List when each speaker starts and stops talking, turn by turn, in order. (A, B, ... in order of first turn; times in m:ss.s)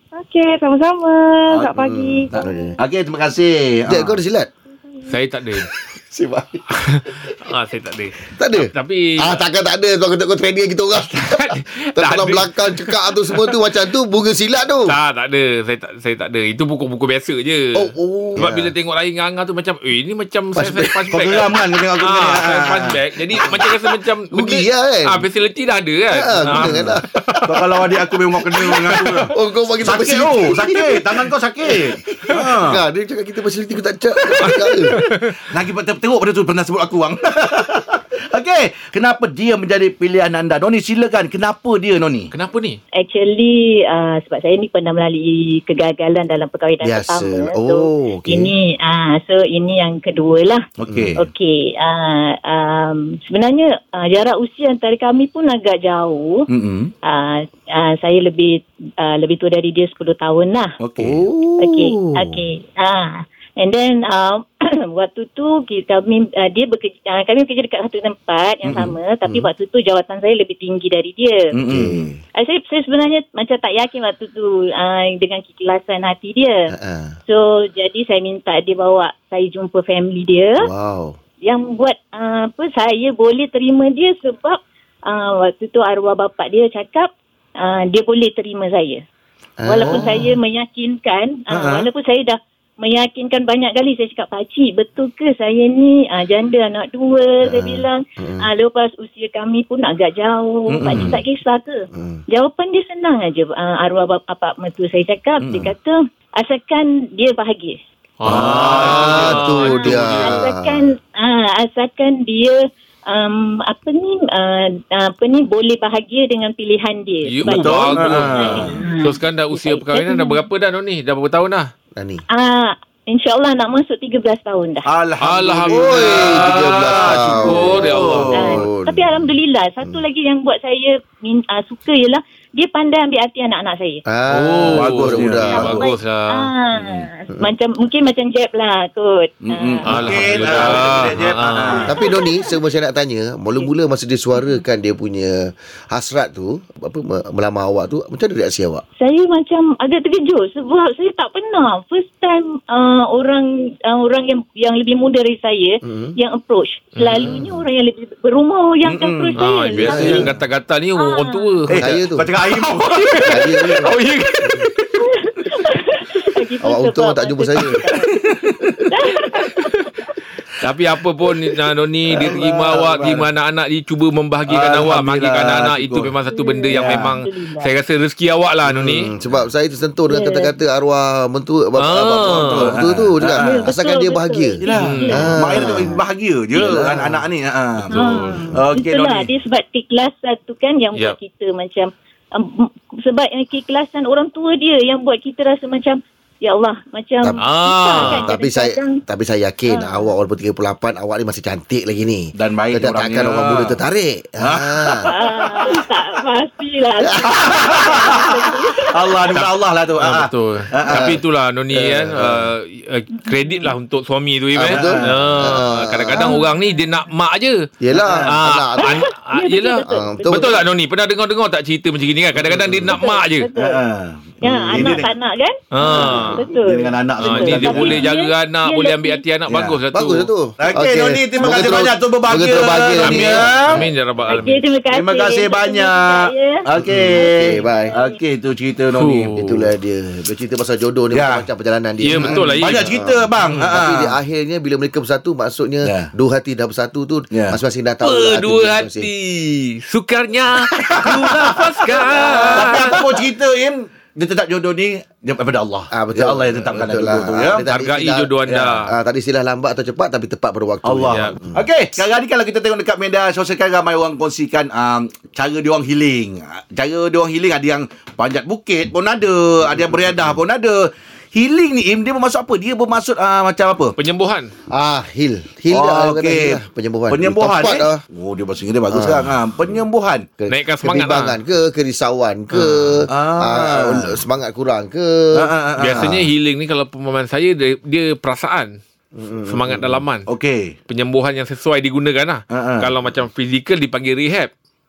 0:00.1-0:02.7 A
0:01.8-0:02.8 B
0:02.3-0:04.2 C
0:03.9-0:04.5 B
0:05.1-0:05.7 D
0:06.1-0:06.6 B
0:06.8-0:09.4 D
0:08.4-0:15.0 B
0:11.2-0:13.5 D
0:14.8-0:27.4 D
0:17.7-0:18.7 B
0:20.6-0:20.9 B
0:21.1-0:23.0 C
0:24.3-0:25.2 B
0:26.1-0:27.6 B
0:26.5-0:26.9 C
0:27.4-0:32.8 C
0:28.5-0:34.9 B
0:29.0-0:29.3 D
0:34.4-0:35.3 D
0:35.5-0:42.3 C
0:42.3-0:42.8 D
0:42.9-0:50.6 E
0:46.8-0:48.5 B
0:50.8-0:51.2 C
0:50.9-0:51.1 B
0:51.2-0:56.5 E
0:56.5-0:56.9 C
0:57.0-1:00.8 E
1:00.8-1:01.3 C
1:01.0-1:02.4 B
1:01.6-1:11.5 E
1:08.6-1:08.9 C
1:11.5-1:12.1 C
1:11.7-1:12.1 B
1:12.3-1:16.7 E
1:16.7-1:17.2 B
1:17.2-1:20.7 E
1:20.6-1:21.2 B
1:21.4-1:29.0 E
1:29.6-1:30.2 B
1:29.6-1:47.8 E
1:29.8-1:30.1 C
1:31.5-1:31.9 C
1:37.4-1:38.5 B
1:40.7-1:41.2 C
1:41.9-1:42.2 B
1:45.4-1:45.7 C
1:48.2-1:50.4 D
1:48.2-1:49.4 C
1:48.3-1:50.9 B
1:49.5-2:00.4 E
1:57.3-2:01.7 D
1:57.4-1:58.8 C
2:02.0-2:02.2 B
2:02.3-2:04.9 E
2:04.8-2:08.6 C
2:05.2-2:08.5 D
2:05.7-2:09.3 B
2:08.3-2:14.0 E
2:14.0-2:15.8 B
2:14.3-2:16.5 D
2:14.7-2:15.8 C
2:15.6-2:21.0 E
2:19.4-2:21.9 C
2:19.8-2:21.9 D
2:21.9-2:28.8 B
2:29.0-2:40.3 E
2:35.8-2:36.1 B
2:37.0-2:37.4 D
2:37.2-2:37.6 B
2:38.8-2:40.3 C
2:39.4-2:41.9 D
2:39.9-2:40.3 B
2:41.0-2:41.5 E
2:41.7-2:43.4 C
2:41.7-2:42.3 B
2:42.9-2:44.9 D
2:43.2-2:43.9 B
2:45.2-2:48.1 E
2:46.6-2:47.8 B
2:48.1-2:48.8 C
2:48.9-2:49.7 E
2:50.6-2:59.1 D
2:52.2-2:53.3 C
2:54.5-2:56.1 C
2:56.3-2:57.7 E
2:56.7-2:57.2 C
2:58.7-2:59.0 C
2:59.0-3:04.6 B
3:00.1-3:00.4 E
3:01.8-3:02.7 D
3:02.3-3:03.6 C
3:03.3-3:06.0 E
3:04.6-3:09.3 C
3:04.7-3:05.3 D
3:05.1-3:06.0 B
3:06.5-3:07.2 B
3:07.9-3:08.4 D
3:07.9-3:19.0 E
3:17.2-3:25.1 B
3:17.4-3:18.2 D
3:19.7-3:20.1 E
3:22.4-3:23.8 C
3:24.4-3:25.8 C
3:25.1-3:29.3 E
3:27.2-3:31.2 C
3:29.4-3:37.6 D
3:31.8-3:32.4 C
3:34.6-3:36.4 B
3:34.6-3:35.2 C
3:36.2-3:36.5 E
3:37.8-3:39.0 B
3:37.9-3:38.3 C
3:38.3-3:43.5 D
3:38.8-3:40.6 E
3:39.9-3:40.6 B
3:42.4-3:42.9 C
3:42.9-3:43.8 E
3:43.6-3:45.1 C
3:44.4-3:49.2 E
3:45.7-3:46.4 D
3:45.9-3:48.0 C
3:47.2-3:50.3 D
3:49.5-3:49.8 C
3:49.9-3:53.8 B
3:50.6-3:53.8 C
3:53.0-3:54.6 D
3:54.3-3:58.2 E
3:54.9-3:59.4 C
3:57.0-3:57.9 B
3:58.9-3:59.6 D
3:59.4-4:09.1 B
4:01.1-4:01.4 C
4:02.0-4:02.9 D
4:02.1-4:04.1 C
4:05.8-4:06.1 C
4:07.3-4:07.6 C
4:08.0-4:13.0 D
4:10.7-4:17.6 C
4:12.3-4:12.7 B
4:15.9-4:18.3 B
4:17.7-4:18.9 D
4:18.5-4:18.8 C
4:18.8-4:21.6 B
4:20.8-4:34.0 C
4:34.0-4:34.5 D
4:34.7-4:38.0 B
4:35.7-4:40.3 C
4:38.9-4:39.3 B
4:40.4-4:46.1 B
4:40.5-4:41.4 D
4:43.0-4:44.2 C
4:45.3-4:46.2 C
4:45.8-4:48.8 D
4:49.1-4:50.0 B
4:49.5-4:50.2 D
4:50.3-4:50.7 C
4:50.9-4:54.5 D
4:52.5-4:52.9 C